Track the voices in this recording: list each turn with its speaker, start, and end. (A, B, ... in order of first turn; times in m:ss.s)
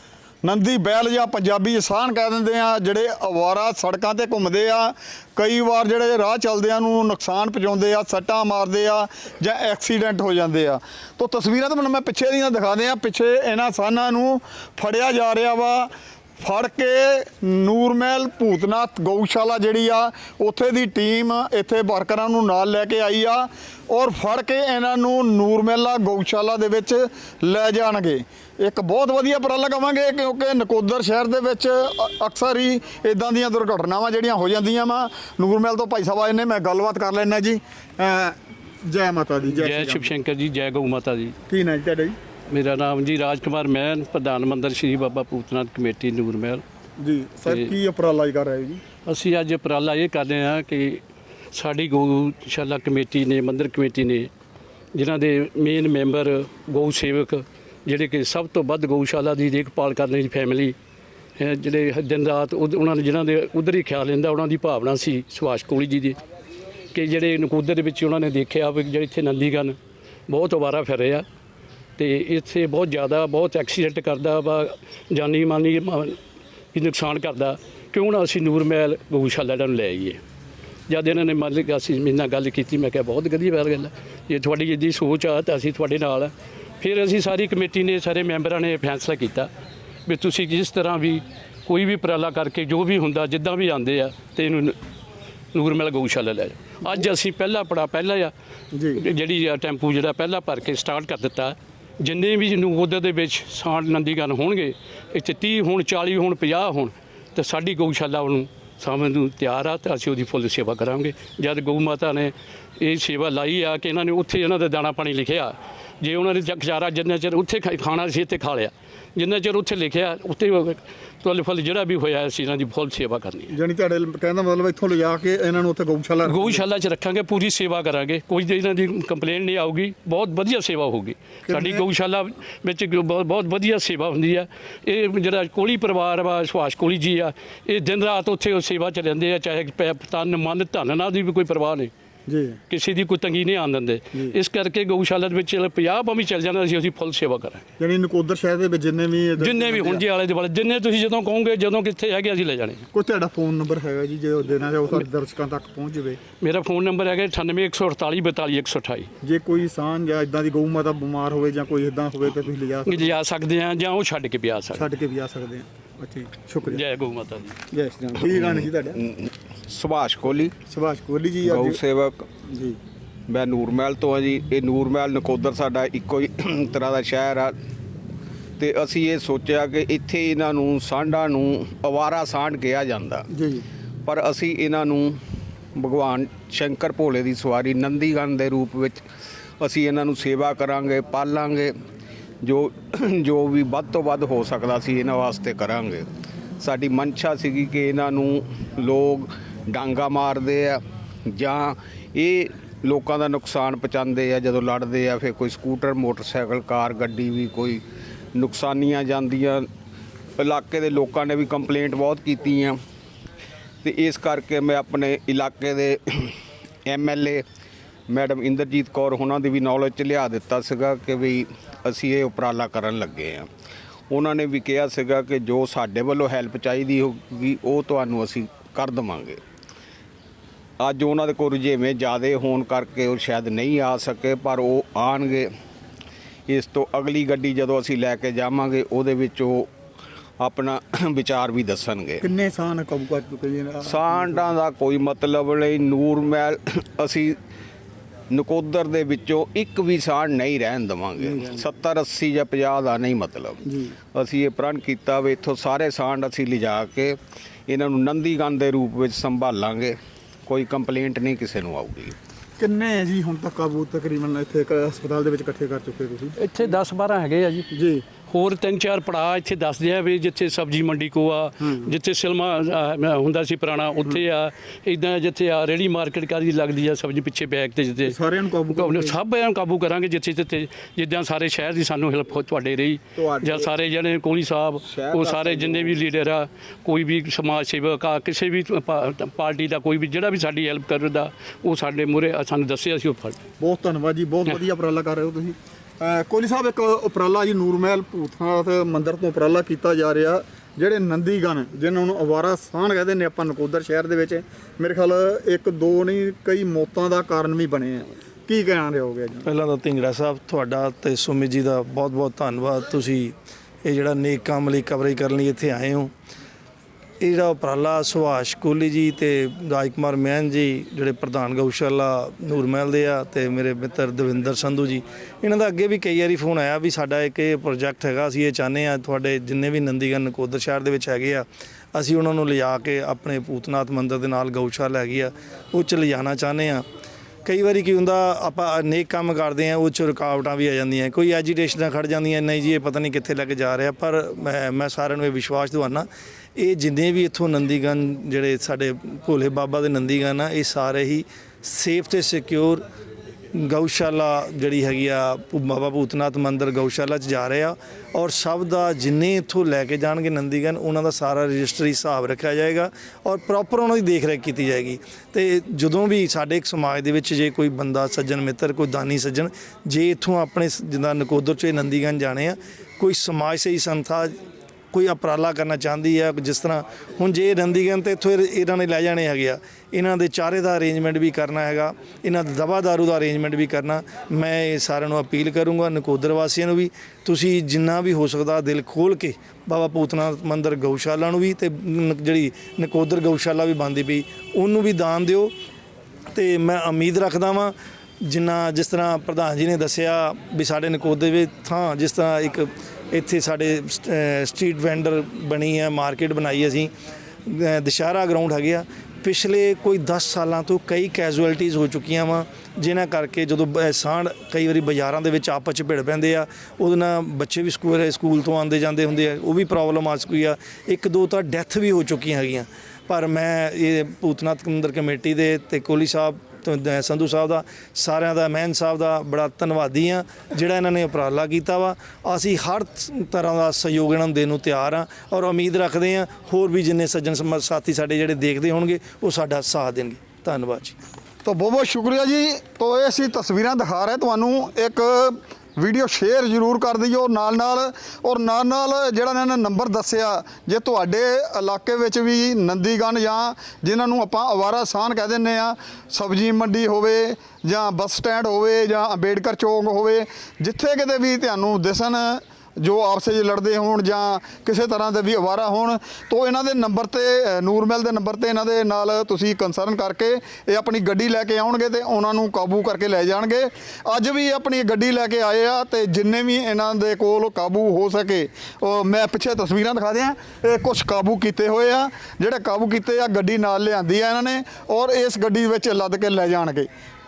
0:00.4-0:40.1 A
0:39.5-0:41.4 B
0:41.5-0:42.2 A
0:42.5-0:46.6 B
0:47.0-0:48.8 A
0:47.5-0:47.7 B
0:49.1-0:51.0 B
0:51.5-0:54.3 B
0:54.9-1:00.8 B
1:01.4-1:06.2 B
1:06.9-1:09.8 B
1:10.3-1:11.2 B
1:12.0-1:16.2 B
1:16.7-1:20.2 B
1:20.9-1:29.5 B
1:30.1-1:34.8 B
1:35.5-1:38.3 B
1:38.7-1:39.0 A
1:39.0-2:03.6 B
2:03.5-2:06.6 A
2:06.2-2:21.9 B
2:11.5-2:11.8 A
2:22.3-2:22.6 A
2:22.7-2:27.6 B
2:27.8-2:30.0 A
2:29.4-2:32.9 B
2:32.9-2:36.2 A
2:36.4-2:39.1 B
2:39.2-2:43.1 A
2:42.9-2:44.9 B
2:44.7-2:46.8 A
2:46.6-2:47.6 B
2:47.7-2:49.0 A
2:48.2-2:50.6 C
2:50.7-2:51.8 A
2:51.4-2:52.3 C
2:52.5-2:52.8 A
2:53.3-2:57.6 C
2:58.6-3:03.3 C
3:03.3-3:03.6 A
3:04.0-3:05.2 C
3:05.8-3:09.0 C
3:09.6-3:11.8 C
3:12.4-3:16.1 C
3:16.6-3:29.7 C
3:30.4-3:32.8 C
3:33.8-3:37.4 C
3:38.1-3:43.5 C
3:44.1-3:49.4 C
3:50.8-3:55.5 C
3:56.5-3:59.7 C
4:00.4-4:02.3 C
4:02.2-4:04.3 A
4:03.8-4:07.4 C
4:08.3-4:22.2 C
4:11.2-4:11.7 A
4:13.7-4:14.0 A
4:22.6-4:26.4 A
4:26.4-4:27.7 B
4:27.7-4:28.0 A
4:28.3-4:38.2 B
4:38.1-4:39.2 A
4:38.7-4:53.4 B
4:43.2-4:43.7 C
4:44.8-4:46.0 C
4:53.6-5:09.4 A
5:09.5-5:16.1 D
5:17.2-5:36.8 D
5:37.4-5:52.8 D
5:53.6-6:14.4 D
6:14.9-6:35.5 D
6:36.3-6:37.7 D
6:38.2-6:46.9 D
6:47.5-7:21.0 D
7:21.4-8:06.9 A